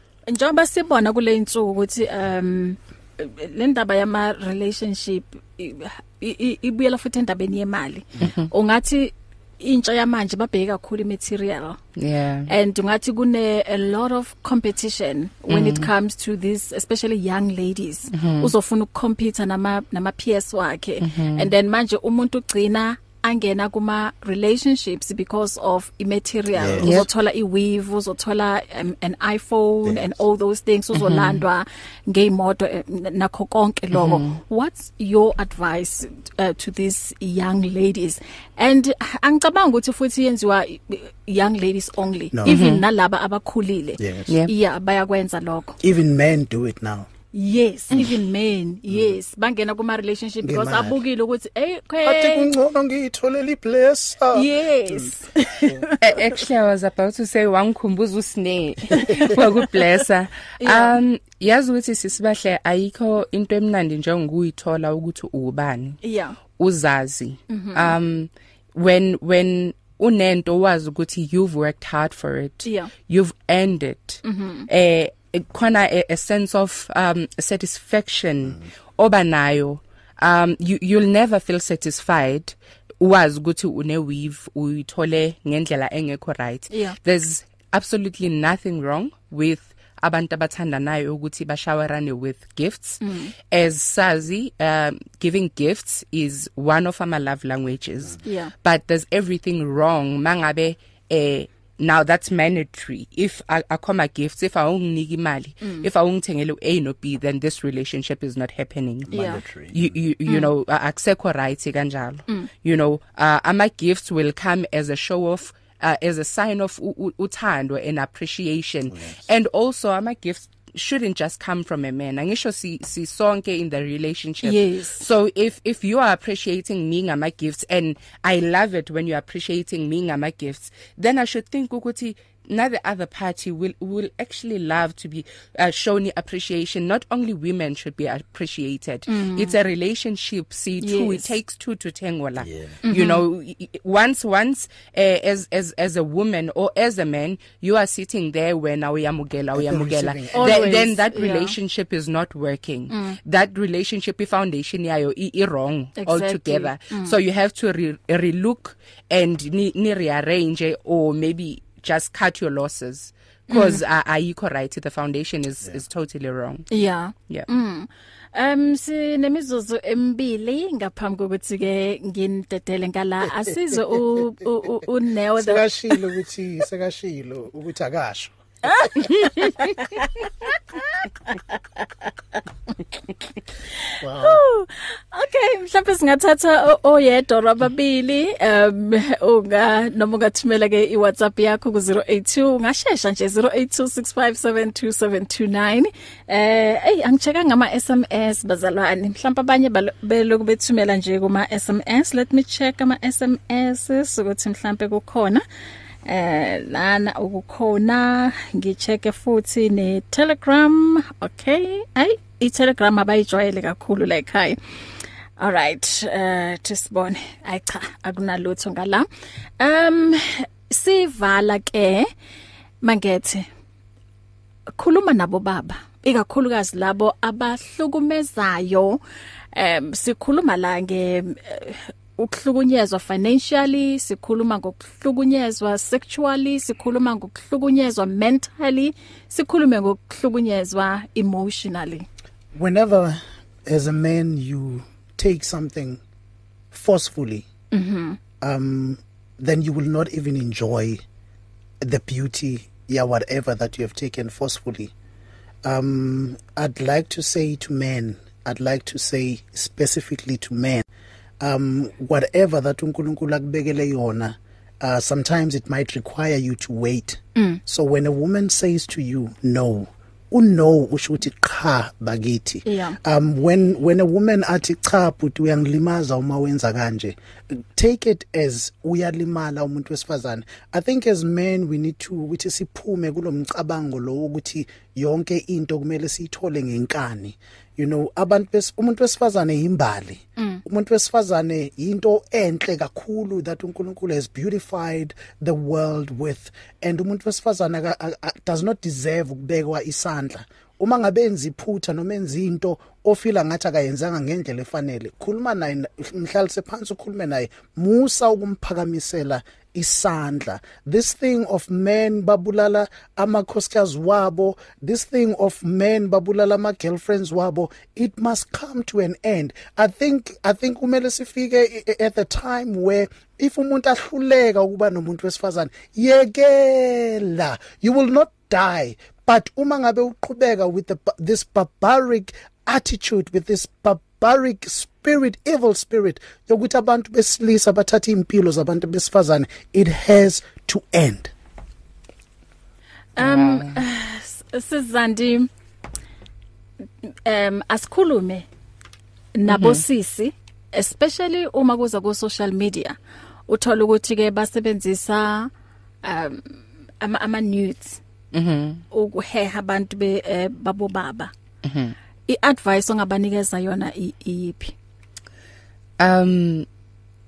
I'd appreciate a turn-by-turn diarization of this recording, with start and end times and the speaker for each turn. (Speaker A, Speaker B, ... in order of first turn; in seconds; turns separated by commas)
Speaker A: 0.3-11.8, Speaker B: 8.2-8.5, Speaker B: 11.9-12.5, Speaker A: 12.5-45.8, Speaker B: 15.5-15.9, Speaker B: 18.1-18.5, Speaker B: 21.0-21.5, Speaker C: 26.5-26.9, Speaker B: 26.8-27.1, Speaker C: 29.8-30.2, Speaker B: 30.9-31.4, Speaker B: 33.9-34.4, Speaker C: 42.3-42.6, Speaker B: 42.5-42.8, Speaker C: 44.0-44.3, Speaker C: 45.8-47.1, Speaker A: 47.3-52.5, Speaker C: 48.9-49.2, Speaker C: 50.4-51.0, Speaker C: 52.0-55.8, Speaker A: 54.3-56.2, Speaker B: 56.0-66.0, Speaker A: 58.9-59.7, Speaker A: 60.6-61.0, Speaker A: 66.0-66.3, Speaker B: 66.5-166.7, Speaker A: 67.5-67.9, Speaker A: 72.6-72.9, Speaker A: 74.2-74.7, Speaker A: 93.0-93.3, Speaker A: 98.2-98.5, Speaker C: 109.1-110.0, Speaker A: 109.1-109.4, Speaker C: 118.9-119.2, Speaker A: 124.4-125.0, Speaker A: 139.1-139.5, Speaker A: 140.8-141.3, Speaker C: 142.4-142.8, Speaker A: 142.8-143.2, Speaker C: 149.5-150.8, Speaker A: 150.3-151.5, Speaker A: 152.9-153.2, Speaker A: 156.0-157.1, Speaker A: 163.5-163.8, Speaker A: 166.7-176.0, Speaker C: 175.4-178.9, Speaker A: 178.6-180.8, Speaker C: 184.0-184.4, Speaker A: 184.2-205.4, Speaker A: 206.1-214.6, Speaker A: 215.4-219.1, Speaker A: 219.6-222.1, Speaker A: 222.8-223.5, Speaker A: 224.8-229.0, Speaker A: 229.5-242.1, Speaker C: 242.5-246.0, Speaker C: 246.7-247.4, Speaker A: 247.7-248.2, Speaker C: 248.4-251.0, Speaker C: 251.8-254.9, Speaker C: 255.6-260.9, Speaker C: 261.4-341.3, Speaker A: 267.4-267.6, Speaker A: 272.6-273.0, Speaker A: 290.4-290.6, Speaker A: 343.2-345.5, Speaker B: 343.2-343.8, Speaker A: 347.2-348.4, Speaker A: 349.4-353.0, Speaker B: 349.5-349.8, Speaker A: 353.5-355.5, Speaker A: 356.0-358.0, Speaker B: 358.3-358.8, Speaker A: 358.9-361.3, Speaker B: 361.6-361.9, Speaker A: 362.3-364.7, Speaker B: 366.0-366.6